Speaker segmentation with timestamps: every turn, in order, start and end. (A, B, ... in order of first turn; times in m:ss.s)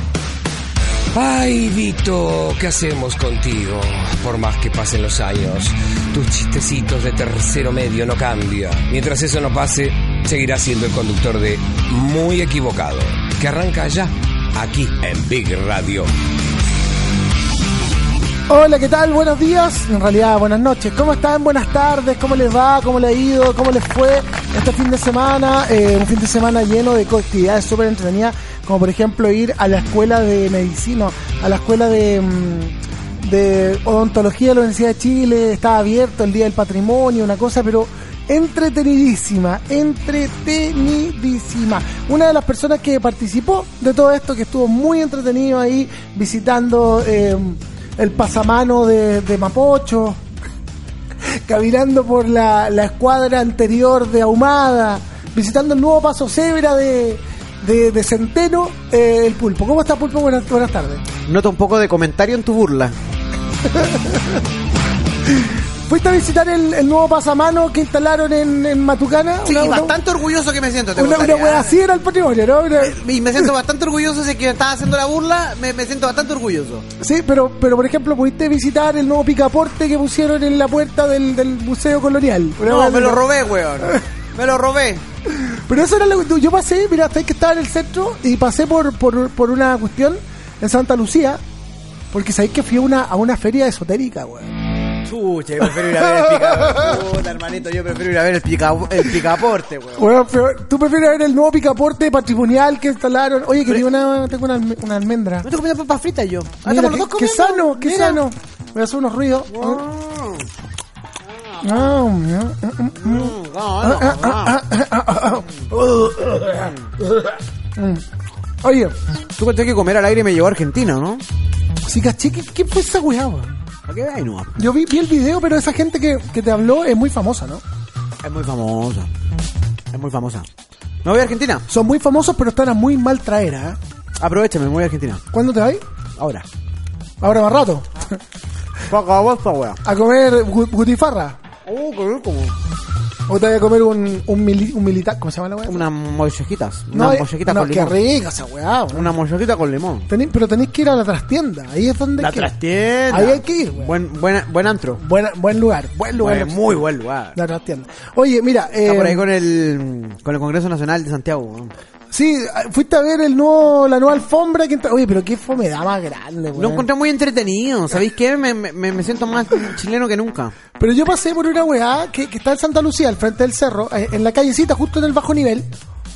0:01.1-0:16.1 A
0:18.5-0:50.2 B
0:51.3-1:01.0 B
1:01.3-1:03.0 C
1:03.7-1:04.4 B
1:05.3-1:10.0 B
1:09.4-1:11.8 C
1:11.0-1:13.0 B
1:12.8-1:16.9 C
1:17.0-1:23.2 B
1:22.6-1:25.0 C
1:25.3-1:31.4 B
1:32.1-1:34.5 B
1:35.0-1:40.1 C
1:36.0-1:37.0 B
1:40.0-1:45.5 B
1:45.4-1:48.2 C
1:46.6-1:49.8 B
1:49.5-1:50.4 C
1:51.5-1:51.9 C
1:51.6-1:56.7 B
1:53.0-1:54.6 C
1:57.8-1:58.0 B
1:58.6-1:59.0 B
1:59.4-2:01.2 C
2:01.9-2:03.6 B
2:03.9-2:04.6 C
2:04.6-2:07.6 B
2:08.2-2:09.1 C
2:09.9-2:10.5 C
2:11.0-2:11.6 C
2:11.7-2:13.8 B
2:14.2-2:15.2 C
2:15.3-2:15.8 B
2:16.2-2:16.5 C
2:17.2-2:18.2 B
2:18.9-2:19.8 C
2:19.8-2:21.4 B
2:21.6-2:22.5 C
2:23.3-2:25.9 B
2:25.7-2:28.0 C
2:26.9-2:29.1 B
2:28.9-2:30.1 C
2:30.1-2:32.5 B
2:32.2-2:35.0 C
2:33.1-2:34.0 B
2:35.0-2:36.8 B
2:36.2-2:37.4 C
2:37.4-2:39.2 B
2:38.8-2:41.7 C
2:42.1-2:46.9 B
2:46.5-2:50.6 C
2:50.8-2:55.7 B